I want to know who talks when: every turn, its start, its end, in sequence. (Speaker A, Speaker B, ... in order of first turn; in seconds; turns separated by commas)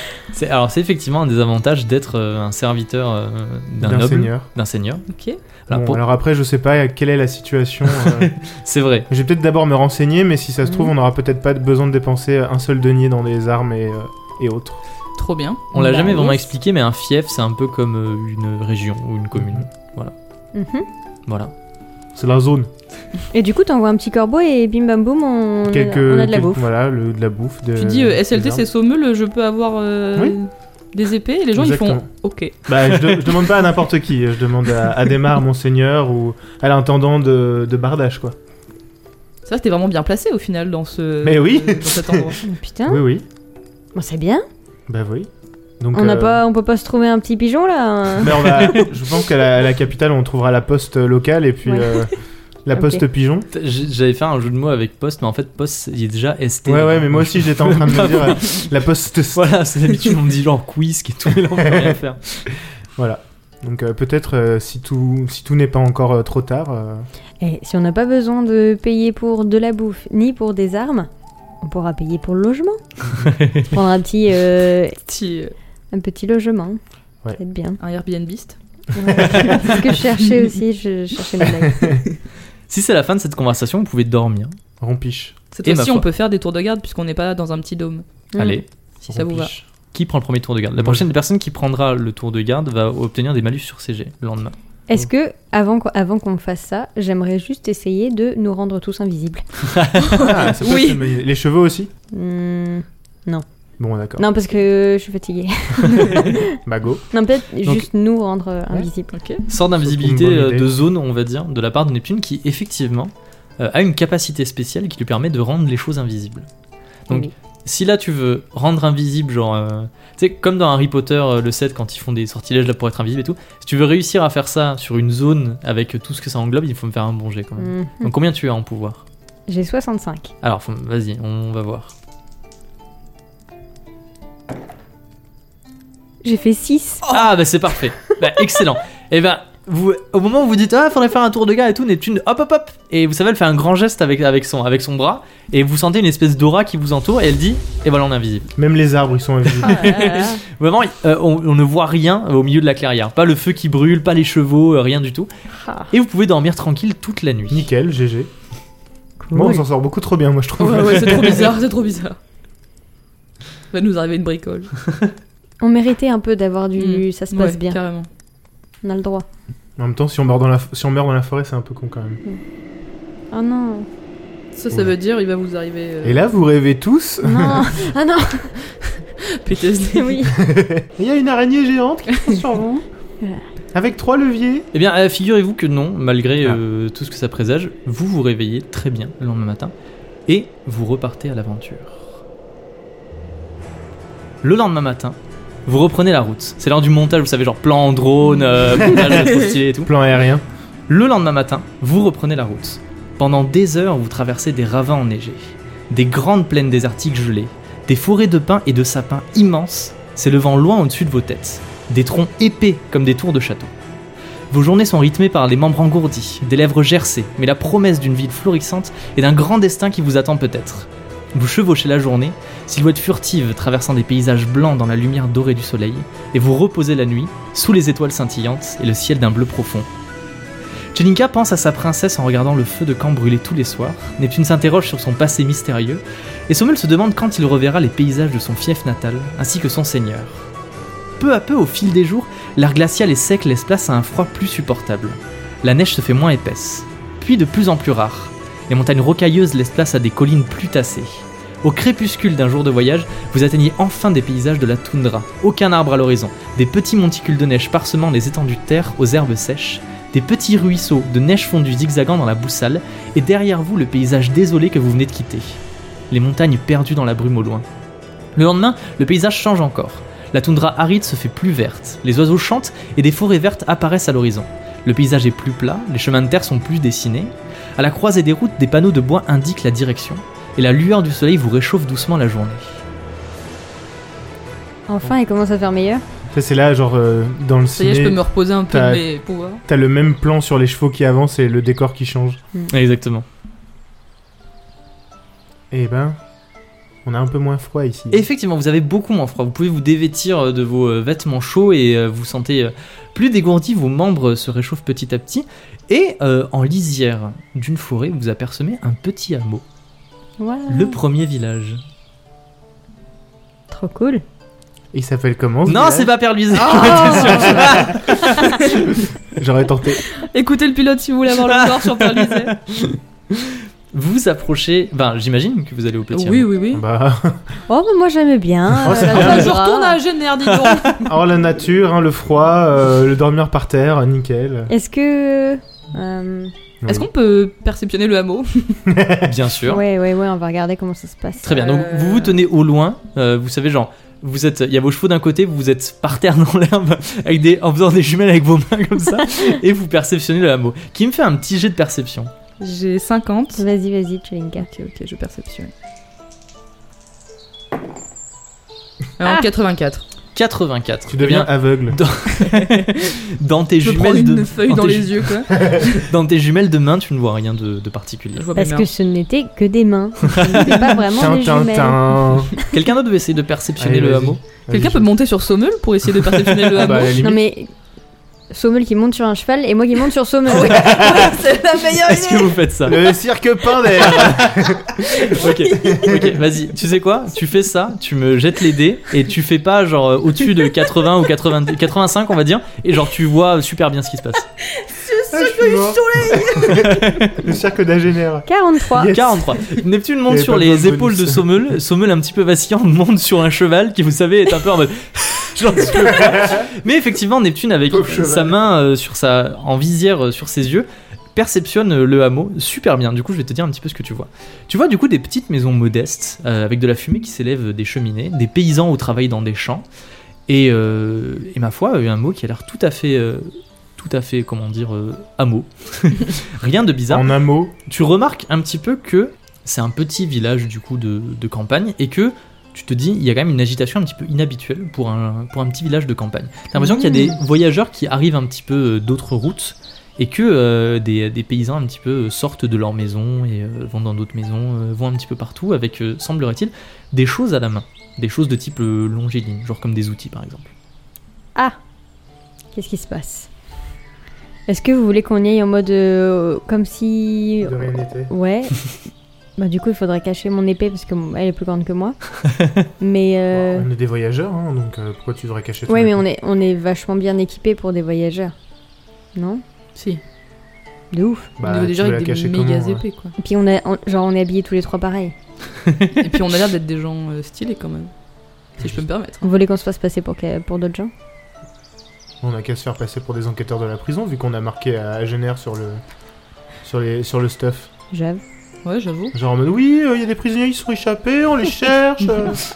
Speaker A: 0.3-5.1, Speaker B: 3.8-4.5, Speaker C: 5.1-5.4, Speaker A: 5.7-6.0, Speaker B: 5.7-8.3, Speaker A: 7.9-9.1, Speaker B: 9.1-14.8, Speaker D: 10.6-10.9, Speaker C: 15.2-15.7, Speaker D: 15.7-16.5, Speaker A: 15.7-20.1, Speaker B: 19.3-19.6, Speaker D: 20.5-20.9, Speaker A: 21.3-21.5, Speaker B: 22.1-22.7, Speaker D: 23.3-26.6, Speaker B: 25.6-28.6, Speaker C: 27.8-32.5, Speaker B: 31.6-32.0, Speaker B: 32.6-38.4, Speaker C: 39.5-42.4, Speaker B: 41.2-42.4, Speaker D: 42.4-43.0, Speaker B: 42.9-43.2, Speaker D: 43.9-44.4, Speaker B: 44.9-45.3, Speaker B: 45.8-46.4, Speaker D: 45.9-48.8, Speaker B: 48.2-52.1, Speaker D: 51.6-52.1, Speaker B: 52.6-53.5, Speaker D: 52.7-53.0, Speaker A: 53.5-58.6, Speaker B: 56.6-59.5, Speaker A: 59.3-62.5, Speaker B: 61.6-62.0, Speaker B: 63.0-67.1, Speaker D: 67.4-71.1, Speaker D: 71.6-72.8, Speaker A: 73.2-73.7, Speaker D: 73.6-75.0, Speaker C: 75.0-75.5, Speaker D: 75.9-76.8, Speaker D: 77.3-77.8, Speaker C: 77.8-78.6, Speaker D: 78.9-82.0, Speaker B: 79.0-79.7, Speaker B: 81.6-82.0, Speaker A: 82.7-84.5, Speaker B: 84.8-85.3, Speaker C: 85.5-88.0, Speaker A: 85.6-86.0, Speaker D: 88.3-88.6, Speaker A: 88.4-94.5, Speaker C: 89.0-89.5, Speaker B: 90.8-91.1, Speaker D: 94.9-99.4, Speaker A: 99.7-100.3, Speaker C: 100.1-101.0, Speaker B: 100.2-101.9, Speaker D: 102.1-103.4, Speaker B: 103.8-104.3, Speaker D: 104.2-106.5, Speaker B: 106.0-107.0, Speaker D: 107.1-109.1, Speaker C: 109.1-109.4, Speaker A: 109.5-116.5, Speaker B: 109.8-110.7, Speaker A: 117.1-129.0, Speaker D: 127.6-128.1, Speaker D: 129.5-130.3, Speaker A: 130.4-131.9, Speaker D: 136.2-137.1, Speaker A: 137.1-148.5, Speaker B: 148.6-150.0, Speaker A: 149.6-155.3, Speaker D: 149.8-150.4, Speaker C: 149.8-150.1, Speaker D: 155.6-155.9, Speaker A: 155.9-157.7, Speaker B: 157.5-158.3, Speaker D: 159.2-159.6, Speaker B: 159.3-161.5, Speaker C: 160.6-162.2, Speaker C: 163.7-164.7, Speaker D: 165.6-167.8, Speaker C: 166.8-168.1, Speaker D: 168.8-169.2, Speaker B: 169.8-172.2, Speaker D: 173.3-173.9, Speaker C: 174.5-176.2, Speaker B: 176.0-177.8, Speaker D: 177.2-178.6, Speaker C: 179.2-180.3, Speaker D: 179.9-180.4, Speaker B: 180.3-182.7, Speaker D: 182.3-183.4, Speaker B: 183.7-184.7, Speaker A: 184.7-189.7, Speaker A: 190.3-192.1, Speaker A: 194.4-199.9, Speaker B: 198.8-199.3, Speaker B: 199.8-200.4, Speaker A: 200.9-213.7, Speaker A: 214.5-229.9, Speaker A: 230.9-240.5, Speaker A: 241.2-265.6, Speaker A: 266.1-267.6, Speaker A: 268.4-282.8, Speaker D: 284.9-286.0, Speaker B: 286.3-289.0, Speaker C: 287.8-289.6, Speaker B: 289.6-292.4, Speaker A: 292.7-293.2, Speaker B: 295.7-296.2, Speaker B: 297.0-298.2, Speaker A: 298.1-309.6, Speaker D: 310.4-311.0, Speaker A: 310.7-311.8, Speaker D: 313.7-314.2, Speaker B: 314.9-318.0, Speaker A: 315.6-318.6, Speaker C: 316.6-319.0, Speaker D: 316.7-317.6, Speaker D: 318.4-318.6, Speaker B: 319.3-320.0, Speaker C: 320.1-322.5, Speaker A: 321.4-326.5, Speaker C: 326.1-326.8, Speaker B: 326.7-327.5, Speaker D: 327.7-330.0, Speaker B: 328.8-329.6, Speaker C: 328.8-331.1, Speaker A: 330.4-331.0, Speaker B: 331.0-334.7, Speaker D: 334.7-336.5, Speaker B: 336.8-337.1, Speaker C: 336.9-338.9, Speaker B: 338.9-339.3, Speaker A: 339.2-339.8, Speaker D: 339.6-341.6, Speaker A: 341.4-352.3, Speaker C: 341.5-342.4, Speaker C: 352.6-353.6, Speaker D: 353.6-354.7, Speaker C: 354.6-355.7, Speaker C: 359.2-360.0, Speaker A: 360.3-368.5, Speaker B: 361.1-362.0, Speaker C: 362.4-362.9, Speaker C: 363.8-366.0, Speaker C: 368.3-368.9, Speaker D: 368.6-372.5, Speaker C: 370.6-371.0, Speaker B: 371.1-372.5, Speaker A: 372.7-374.4, Speaker B: 373.8-375.1, Speaker C: 374.7-377.2, Speaker B: 376.8-377.4, Speaker D: 377.2-377.7, Speaker D: 378.5-381.4, Speaker C: 380.5-382.6, Speaker B: 380.9-381.1, Speaker A: 382.0-383.1, Speaker B: 382.9-386.3, Speaker A: 384.0-394.5, Speaker C: 385.2-385.9, Speaker C: 394.7-396.9, Speaker B: 395.3-399.6, Speaker A: 396.7-397.4, Speaker D: 398.5-399.2, Speaker A: 399.1-419.9, Speaker B: 400.3-401.7, Speaker B: 405.9-406.7, Speaker B: 407.9-408.6, Speaker A: 420.5-427.3, Speaker B: 427.1-427.8, Speaker A: 427.9-450.7, Speaker D: 436.8-437.3, Speaker C: 437.1-437.3, Speaker D: 452.7-453.5, Speaker D: 454.7-459.0, Speaker B: 457.6-458.3, Speaker D: 459.6-462.4, Speaker D: 463.0-463.9, Speaker B: 463.5-466.2, Speaker D: 465.9-468.5, Speaker D: 469.3-469.6, Speaker D: 471.1-471.5, Speaker B: 471.6-473.0, Speaker C: 471.6-473.3, Speaker D: 473.4-475.3, Speaker A: 475.9-476.2, Speaker C: 476.1-478.1, Speaker C: 478.8-479.5, Speaker B: 478.8-479.0, Speaker D: 479.4-481.1, Speaker B: 482.4-486.0, Speaker B: 486.8-487.9, Speaker D: 488.1-488.4, Speaker C: 488.8-489.3, Speaker B: 489.3-492.6